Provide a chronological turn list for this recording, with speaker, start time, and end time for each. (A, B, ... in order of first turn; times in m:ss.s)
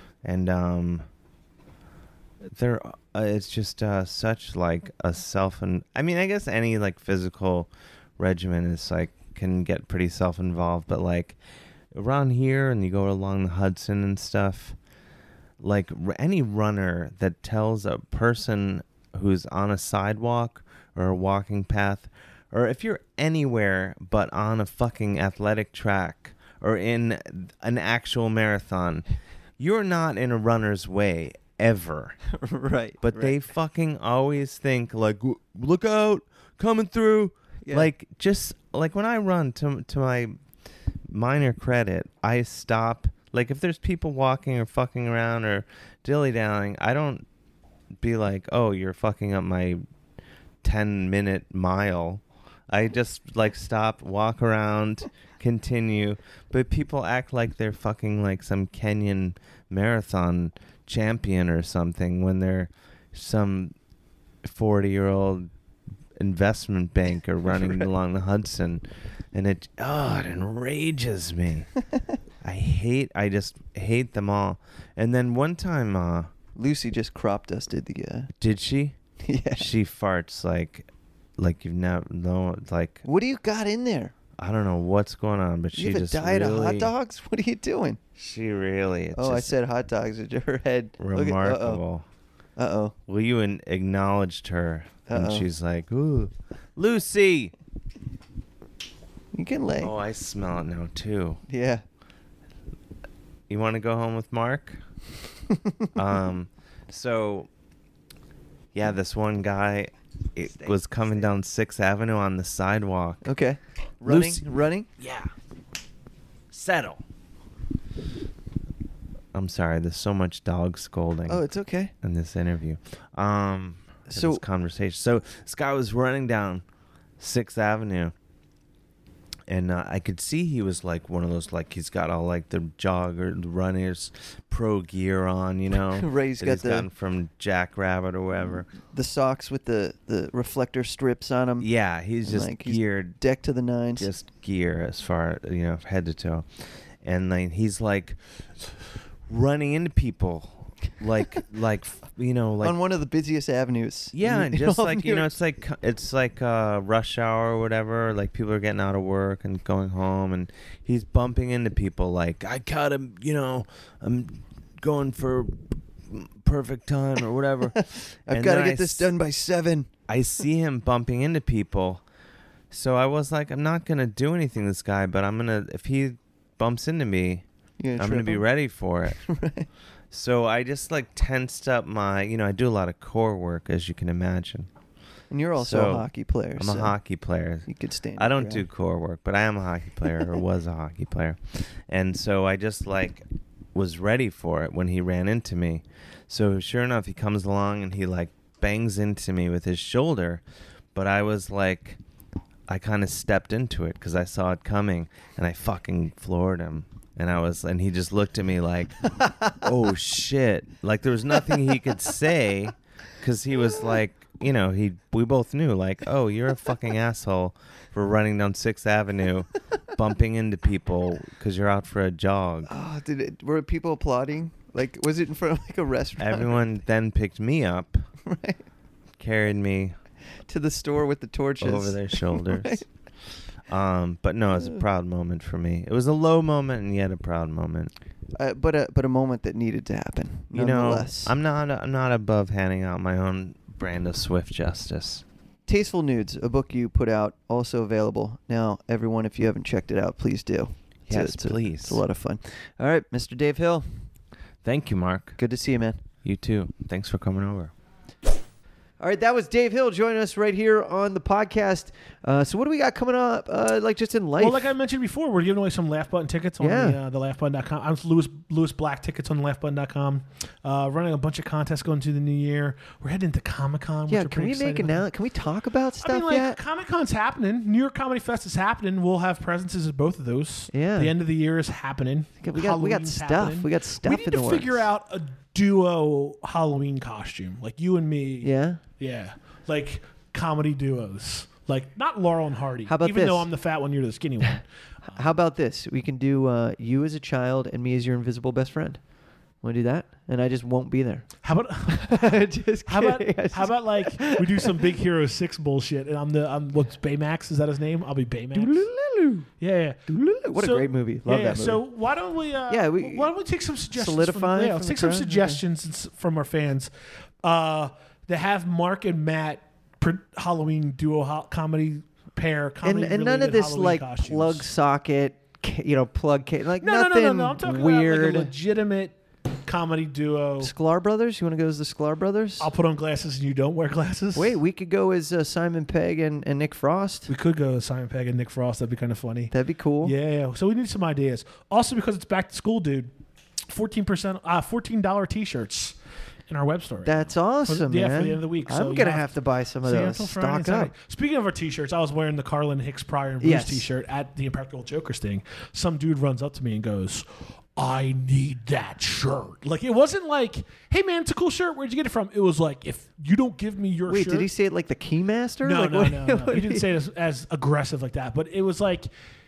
0:00.2-0:01.0 A
0:02.5-0:11.4 A
0:11.9-0:14.8 A
0:15.6-0:29.1 A
0:29.6-0:32.2 A
0:32.3-0:33.4 B
0:33.0-0:40.4 A
0:37.6-0:37.9 B
0:41.1-0:47.2 A
0:48.0-0:49.8 A
0:50.6-1:03.7 A
1:04.4-1:05.5 A
1:06.2-1:11.7 A
1:12.4-1:16.3 A
1:16.6-1:18.3 B
1:18.4-1:19.0 A
1:19.2-1:19.7 B
1:19.6-1:23.0 A
1:23.0-1:24.1 B
1:24.4-1:26.9 A
1:25.7-1:28.0 B
1:28.2-1:29.5 A
1:29.2-1:31.8 B
1:31.0-1:32.0 A
1:32.6-1:32.9 B
1:33.1-1:37.5 A
1:35.1-1:35.5 B
1:39.3-1:39.9 B
1:39.8-1:41.4 A
1:41.5-1:41.8 B
1:43.5-1:44.8 A
1:45.6-1:45.9 B
1:46.0-1:47.5 A
1:48.7-1:53.2 A
1:50.6-1:51.3 B
1:53.2-1:54.9 B
1:54.0-1:54.5 A
1:55.0-1:55.3 A
1:56.5-1:57.0 A
1:59.3-2:01.4 A
2:01.3-2:01.9 B
2:02.0-2:06.6 A
2:04.1-2:04.4 B
2:07.2-2:08.1 A
2:09.5-2:18.7 A
2:15.9-2:16.9 B
2:18.9-2:21.7 B
2:21.6-2:23.2 A
2:22.2-2:24.1 B
2:24.0-2:26.5 A
2:27.0-2:28.2 A
2:29.3-2:32.8 A
2:32.6-2:35.3 B
2:34.1-2:49.1 A
2:47.8-2:49.9 B
2:50.1-2:52.0 A
2:52.7-2:57.4 A
2:57.8-2:58.5 B
2:58.0-2:59.2 A
2:59.1-2:59.7 B
3:00.1-3:04.7 A
3:05.3-3:07.0 B
3:05.6-3:20.4 A
3:07.7-3:08.7 B
3:20.9-3:22.0 A
3:22.7-3:42.7 A
3:42.7-3:46.6 B
3:46.2-3:48.1 A
3:48.2-3:48.6 B
3:49.2-3:50.0 A
3:50.5-3:52.8 B
3:51.6-3:52.8 A
3:53.7-3:57.9 A
3:58.4-4:01.3 B
4:00.5-4:05.2 A
4:05.7-4:13.8 B
4:11.1-4:12.0 A
4:14.6-4:15.4 A
4:15.4-4:16.0 B
4:16.2-4:17.7 A
4:19.0-4:24.7 B
4:24.4-4:35.1 C
4:26.6-4:27.0 B
4:34.1-4:36.6 B
4:36.0-4:54.6 C
4:40.7-4:41.2 B
4:42.4-4:44.9 B
4:48.4-4:48.8 B
4:52.9-4:53.5 B
4:55.1-4:59.0 B
4:59.6-5:01.3 B
5:01.4-5:08.9 C
5:01.9-5:04.9 B
5:08.5-5:09.5 B
5:09.6-5:10.0 C
5:10.1-5:11.8 B
5:10.6-5:16.9 C
5:12.7-5:13.3 B
5:13.9-5:15.6 B
5:17.4-5:24.7 C
5:22.8-5:28.5 B
5:26.8-5:30.7 C
5:30.6-5:32.7 B
5:32.6-5:34.6 C
5:34.4-5:37.3 B
5:37.3-5:43.1 C
5:39.5-5:40.2 B
5:43.7-5:49.3 C
5:47.0-5:50.9 B
5:49.8-6:04.5 C
5:53.4-5:53.9 B
6:04.1-6:06.9 B
6:05.6-6:09.1 C